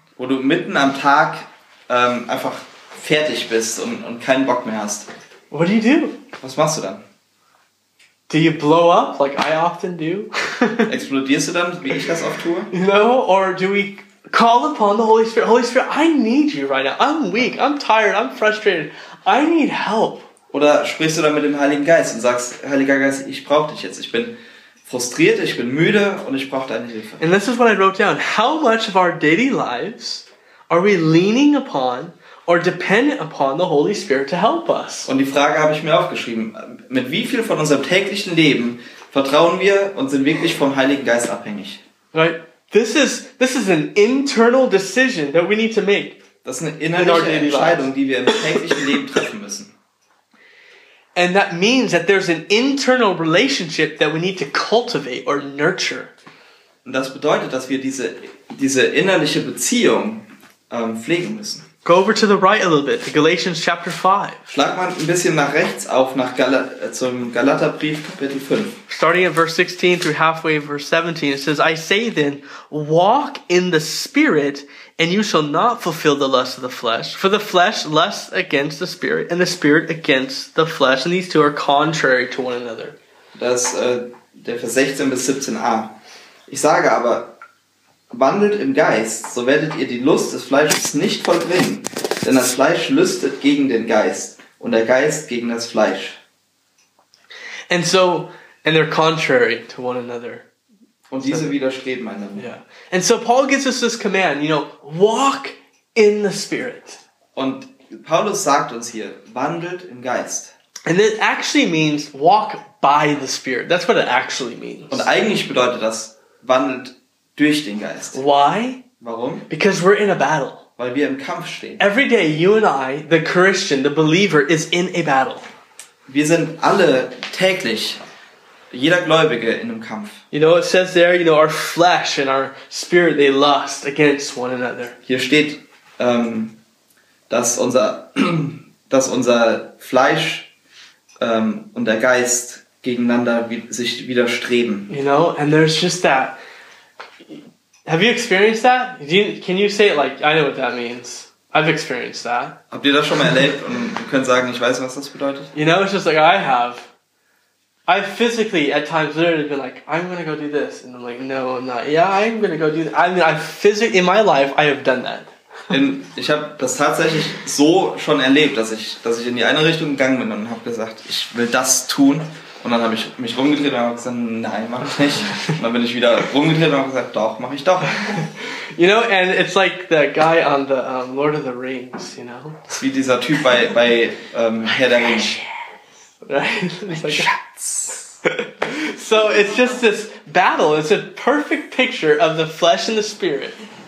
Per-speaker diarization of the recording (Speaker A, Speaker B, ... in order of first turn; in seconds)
Speaker A: 0.2-5.1, 6.4-7.0, 10.9-12.7, 20.5-27.2, 35.1-41.8, 46.5-49.7, 56.9-61.7, 64.5-68.8, 83.3-86.0, 86.5-87.4, 88.1-96.2, 101.1-102.5, 107.4-110.5, 114.9-118.2, 119.0-119.5, 120.8-121.8, 126.1-128.0, 128.7-130.2, 135.1-136.6, 137.3-140.5, 141.2-144.9, 152.7-155.5, 165.7-178.1, 182.7-185.4, 186.9-188.1
Speaker B: 5.5-6.2, 8.3-10.9, 12.7-20.3, 27.2-35.1, 42.1-46.2, 47.0-47.9, 51.1-56.1, 61.9-64.4, 68.9-83.0, 97.7-100.5, 101.2-101.5, 102.4-107.0, 110.9-115.1, 118.1-118.8, 119.5-120.6, 121.8-125.5, 130.3-135.0, 144.9-146.4, 147.9-152.6, 155.5-156.9, 157.9-165.3, 178.8-182.7, 186.2-187.3, 188.2-193.6